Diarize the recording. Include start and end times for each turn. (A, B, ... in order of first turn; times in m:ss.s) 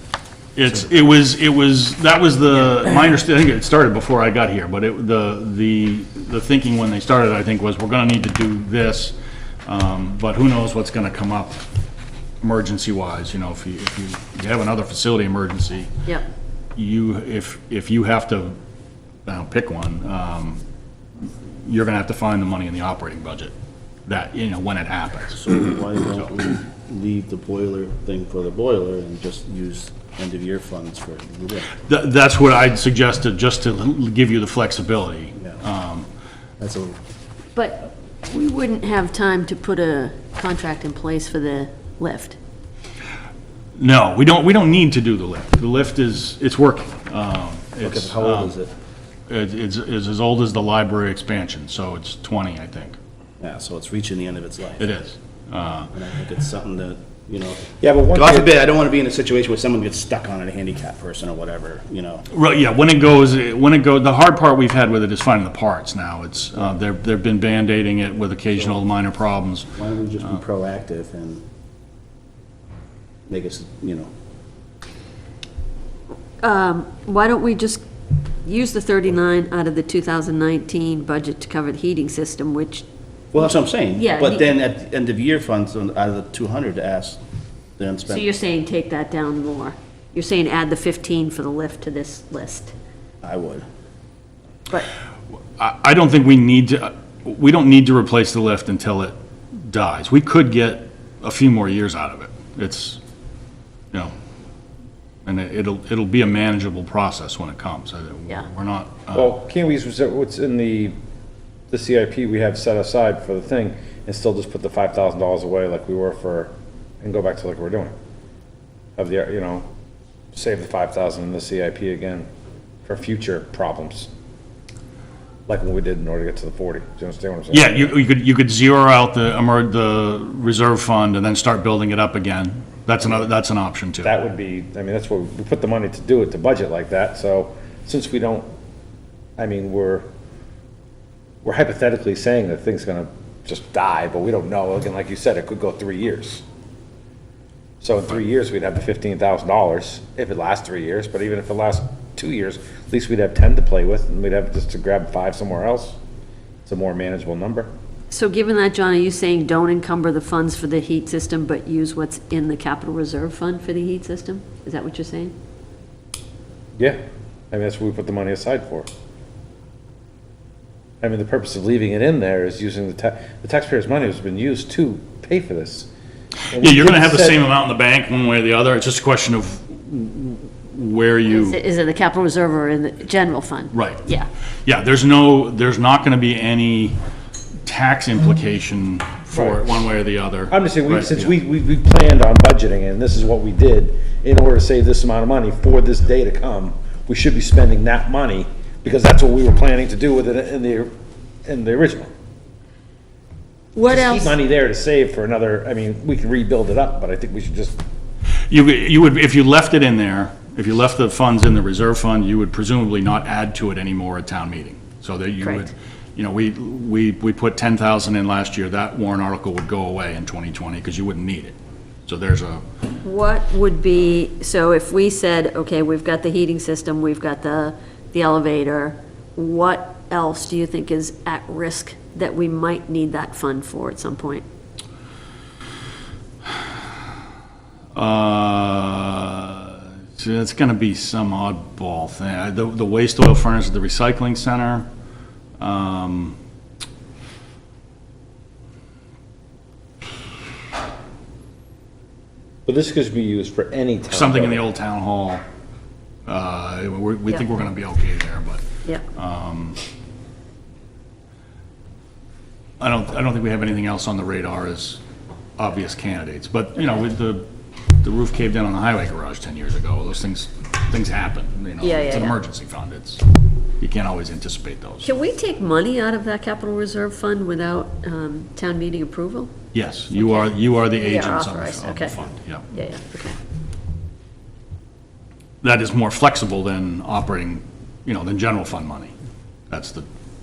0:00.6-0:09.1 A
0:09.7-0:11.6 A
0:12.4-0:15.9 A
0:16.8-0:18.6 A
0:19.3-0:20.6 A
0:21.2-0:23.5 A
0:24.1-0:25.4 A
0:25.3-0:31.7 B
0:31.8-0:36.1 A
0:36.6-0:37.0 B
0:37.5-0:42.4 C
0:43.8-0:48.6 A
0:47.8-0:48.7 B
0:49.3-0:53.0 A
0:53.4-0:54.9 B
0:54.8-0:55.9 A
0:55.9-1:02.2 B
0:57.8-0:58.5 D
1:02.3-1:09.7 A
1:09.8-1:11.4 B
1:13.3-1:14.1 B
1:16.4-1:17.8 C
1:18.4-1:22.8 C
1:23.3-1:27.2 B
1:23.9-1:24.5 C
1:27.8-1:28.3 B
1:28.1-1:32.7 C
1:33.2-1:33.6 B
1:35.6-1:43.0 A
1:45.2-1:49.3 A
1:49.1-1:51.0 D
1:51.7-1:57.9 D
1:59.0-1:59.7 D
2:00.3-2:02.3 D
2:02.9-2:04.1 D
2:05.5-2:07.9 D
2:07.5-2:14.2 A
2:14.0-2:18.5 D
2:19.4-2:20.0 D
2:21.4-2:26.4 D
2:27.8-2:36.0 D
2:36.7-2:37.7 D
2:38.1-2:45.3 C
2:47.5-2:48.9 D
2:51.0-2:55.9 D
2:56.5-2:57.4 D
2:56.5-3:01.6 A
3:01.3-3:04.3 C
3:03.7-3:04.0 A
3:04.7-3:07.0 A
3:07.6-3:11.3 A
3:10.5-3:20.9 D
3:21.4-3:22.1 D
3:23.8-3:24.4 C
3:23.8-3:27.8 D
3:28.5-3:42.6 A
3:35.4-3:35.7 C
3:43.0-3:54.4 C
3:57.9-4:04.9 A
4:05.6-4:06.4 A
4:12.6-4:14.6 D
4:14.1-4:15.4 A
4:16.2-4:18.6 A
4:19.1-4:19.8 A
4:22.8-4:25.0 A
4:25.6-4:27.5 A
4:28.0-4:33.2 A
4:31.8-4:32.3 C
4:33.8-4:35.1 A
4:35.0-4:39.5 C
4:39.7-4:42.7 A
4:40.1-4:42.1 C
4:42.7-4:43.4 C
4:45.6-4:49.1 A
4:49.7-4:50.1 A